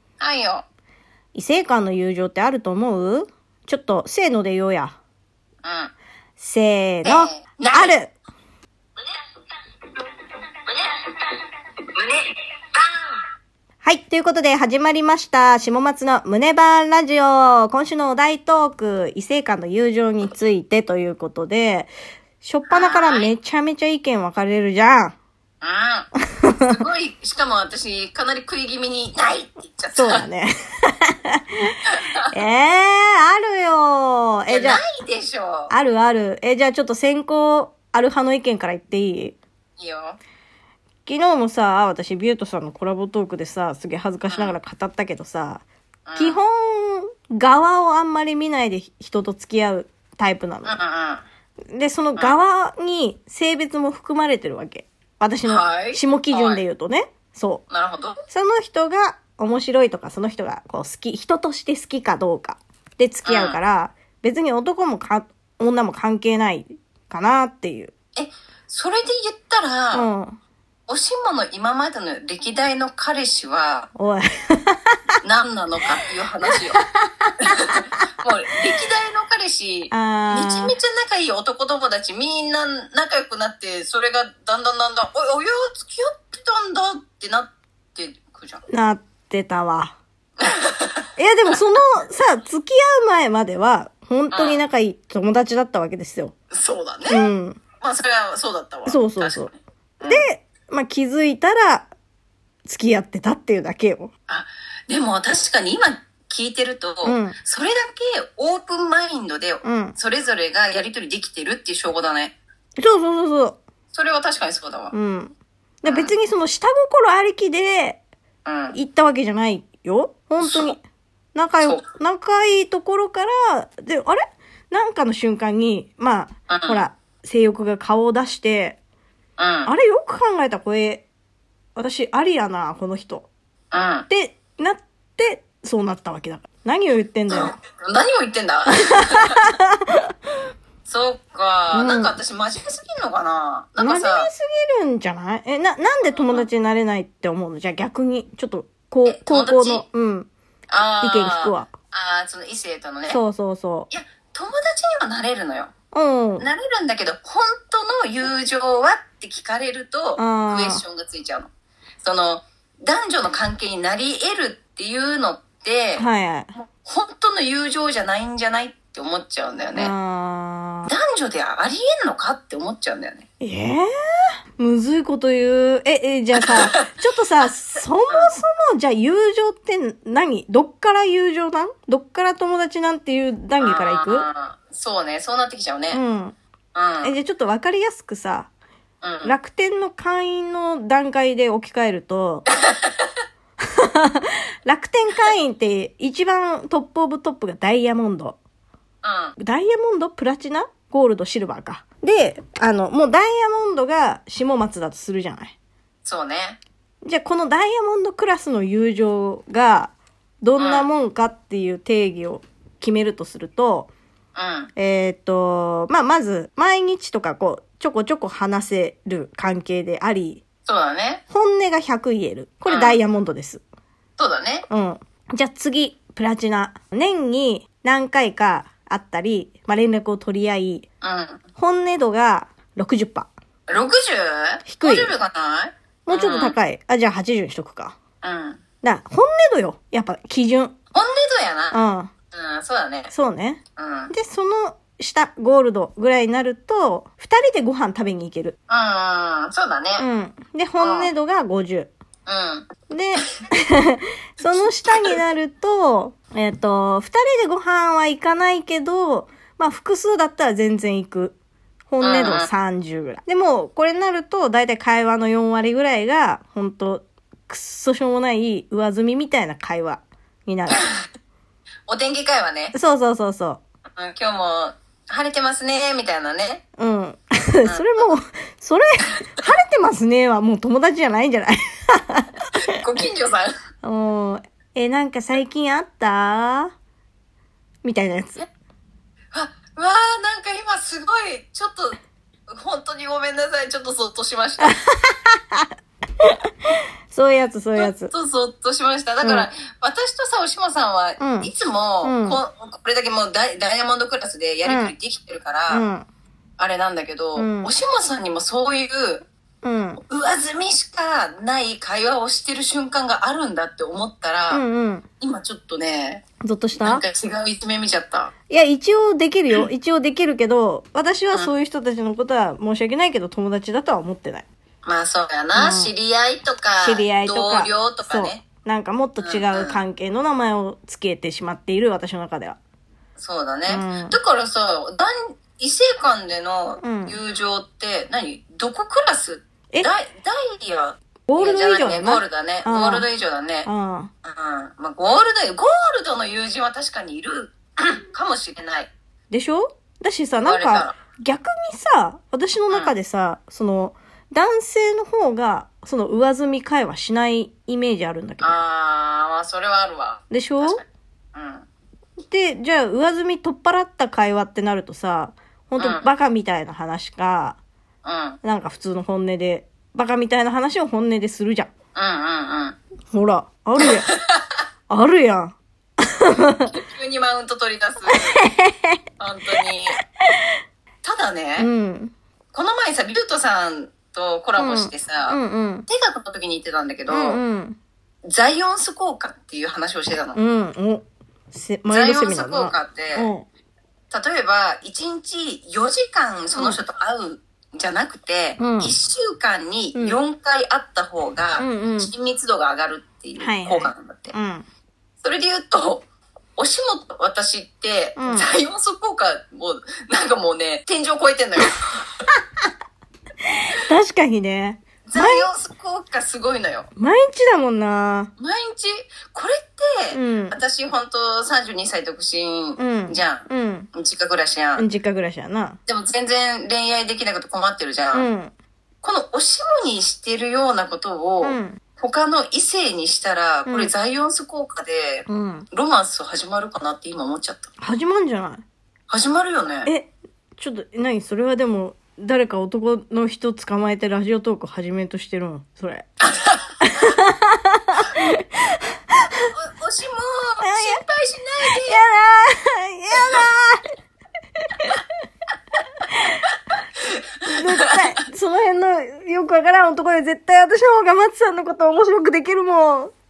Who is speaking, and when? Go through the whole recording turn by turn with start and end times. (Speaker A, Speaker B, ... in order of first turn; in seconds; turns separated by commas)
Speaker A: 0.2-0.6, Speaker B: 1.3-5.0, Speaker A: 5.6-5.9, Speaker B: 6.4-8.1, Speaker A: 7.0-7.9, Speaker B: 13.8-25.1, Speaker A: 22.7-23.3, Speaker A: 25.6-26.1, Speaker B: 26.4-26.7, Speaker A: 26.7-30.2, Speaker B: 29.9-31.8, Speaker A: 31.9-32.3, Speaker B: 32.3-34.8, Speaker A: 34.5-35.7, Speaker B: 35.7-39.4, Speaker A: 39.8-40.2, Speaker B: 41.0-45.6, Speaker A: 44.3-44.5, Speaker A: 46.0-46.4, Speaker B: 46.2-50.8, Speaker A: 50.6-51.2, Speaker B: 51.7-57.6, Speaker A: 55.5-56.6, Speaker A: 57.7-58.2, Speaker B: 58.3-67.9, Speaker A: 63.2-63.6, Speaker A: 68.2-70.1, Speaker B: 69.9-70.3, Speaker A: 70.9-73.9, Speaker B: 74.0-75.0, Speaker A: 75.2-76.8, Speaker B: 76.9-77.8, Speaker A: 77.4-88.6, Speaker B: 79.9-80.7, Speaker B: 88.7-90.0, Speaker A: 90.4-91.5, Speaker B: 91.2-96.3, Speaker A: 94.3-94.6, Speaker A: 96.5-97.3, Speaker B: 97.1-97.6, Speaker A: 97.8-100.2, Speaker B: 98.8-99.5, Speaker B: 100.0-101.9, Speaker B: 102.6-104.1, Speaker A: 104.3-112.3, Speaker B: 107.0-107.3, Speaker B: 109.6-110.0, Speaker B: 112.8-113.6, Speaker A: 113.9-114.9, Speaker B: 114.9-118.0, Speaker A: 115.8-116.1, Speaker A: 118.4-118.8, Speaker B: 118.7-120.8, Speaker A: 120.4-120.8, Speaker B: 121.3-128.8, Speaker A: 126.5-126.8, Speaker A: 129.4-129.7, Speaker B: 129.7-131.1, Speaker B: 131.7-133.3, Speaker A: 133.7-134.1, Speaker B: 134.1-137.5, Speaker A: 137.3-139.4, Speaker B: 139.3-139.9, Speaker A: 140.8-144.3, Speaker B: 141.7-142.2, Speaker B: 143.8-150.3, Speaker A: 146.1-146.5, Speaker A: 149.1-149.8, Speaker A: 150.7-153.2, Speaker B: 151.0-151.7, Speaker B: 153.1-153.9, Speaker A: 153.9-155.7, Speaker B: 155.9-156.4, Speaker A: 156.4-161.5, Speaker B: 160.2-160.8, Speaker A: 162.0-166.1, Speaker B: 166.0-166.5, Speaker A: 166.6-169.9, Speaker B: 169.8-170.9, Speaker A: 170.9-173.2, Speaker B: 173.4-173.9, Speaker B: 174.6-184.3, Speaker A: 176.3-176.9, Speaker A: 183.6-186.0, Speaker B: 185.9-186.3, Speaker A: 186.7-187.1, Speaker B: 187.0-188.5, Speaker A: 189.0-189.3, Speaker B: 189.2-192.5, Speaker A: 192.5-193.1, Speaker B: 193.8-198.4, Speaker A: 199.0-199.3, Speaker B: 199.4-205.5, Speaker A: 206.0-206.6, Speaker B: 207.0-213.9, Speaker A: 210.6-210.9, Speaker A: 214.3-214.7, Speaker B: 214.8-220.4, Speaker A: 220.7-221.2, Speaker B: 221.3-223.6, Speaker A: 222.7-223.0, Speaker A: 224.2-224.7, Speaker B: 224.7-230.8, Speaker A: 231.0-231.4, Speaker B: 231.6-233.3, Speaker A: 233.7-236.6, Speaker B: 234.7-235.1, Speaker B: 236.0-238.0, Speaker A: 238.2-238.6, Speaker B: 238.8-240.7, Speaker A: 240.9-241.8, Speaker B: 241.7-242.1, Speaker A: 242.3-243.1, Speaker B: 243.1-248.6, Speaker A: 243.8-244.1, Speaker A: 248.7-250.0, Speaker B: 250.0-251.9, Speaker A: 250.8-251.1, Speaker A: 252.2-253.2, Speaker B: 252.9-261.4, Speaker A: 254.4-255.1, Speaker B: 261.9-270.9, Speaker A: 262.0-262.5, Speaker A: 271.9-272.7, Speaker B: 272.7-273.6, Speaker A: 274.0-276.6, Speaker B: 276.8-282.3, Speaker A: 277.6-278.0, Speaker A: 282.6-283.5, Speaker B: 283.8-286.7, Speaker B: 287.8-288.5, Speaker A: 289.3-292.0, Speaker A: 292.5-294.8, Speaker B: 294.6-295.7, Speaker B: 297.1-298.1, Speaker A: 297.7-305.8, Speaker B: 299.2-299.5, Speaker B: 301.2-301.5, Speaker B: 302.0-302.4, Speaker B: 304.6-304.9, Speaker B: 305.7-306.1, Speaker A: 306.6-309.2, Speaker B: 307.4-307.7, Speaker B: 309.6-310.0, Speaker A: 310.0-314.6, Speaker B: 314.5-315.0, Speaker A: 315.2-318.3, Speaker B: 316.4-317.0, Speaker B: 318.5-324.4, Speaker A: 324.8-328.4, Speaker B: 325.5-325.9, Speaker B: 326.8-332.6, Speaker A: 329.2-329.8, Speaker A: 333.2-343.7, Speaker B: 333.7-334.1, Speaker B: 336.8-337.2, Speaker B: 341.3-343.1, Speaker B: 343.6-344.1, Speaker A: 344.2-348.9, Speaker B: 349.3-358.6, Speaker A: 350.4-350.9, Speaker A: 352.7-352.9, Speaker A: 358.4-361.6, Speaker B: 360.3-360.8, Speaker B: 362.2-367.6, Speaker A: 365.8-366.1, Speaker A: 368.0-368.4, Speaker B: 368.4-371.7, Speaker A: 371.9-372.8, Speaker B: 373.1-374.1, Speaker A: 373.8-374.6, Speaker B: 374.9-376.7, Speaker A: 376.7-378.4, Speaker B: 378.1-379.0, Speaker A: 379.2-380.0, Speaker A: 381.0-381.7, Speaker B: 381.6-382.1, Speaker A: 382.5-387.4, Speaker B: 384.6-385.9, Speaker B: 387.1-387.8, Speaker A: 388.2-390.4, Speaker B: 390.3-393.4, Speaker A: 391.9-393.3, Speaker A: 394.1-404.3, Speaker B: 396.5-396.8, Speaker B: 398.6-398.9, Speaker B: 401.6-402.1, Speaker B: 403.4-404.6, Speaker A: 405.2-406.1, Speaker A: 406.6-412.1, Speaker B: 408.2-408.5, Speaker B: 413.8-415.5, Speaker A: 415.1-416.9, Speaker B: 417.0-418.3, Speaker A: 418.4-424.8, Speaker B: 420.1-420.6, Speaker B: 422.8-423.9, Speaker B: 424.8-425.8, Speaker A: 425.9-428.3, Speaker B: 428.1-428.5, Speaker A: 429.0-437.7, Speaker B: 431.4-431.8, Speaker B: 433.7-433.9, Speaker B: 435.3-435.7, Speaker B: 437.8-438.6, Speaker A: 439.1-439.9, Speaker B: 439.9-446.1, Speaker A: 446.2-447.0, Speaker B: 446.8-448.6, Speaker A: 449.5-452.0, Speaker B: 450.6-451.0, Speaker B: 451.9-453.9, Speaker A: 453.1-453.4, Speaker B: 454.7-455.0, Speaker A: 457.0-458.2, Speaker B: 457.5-463.1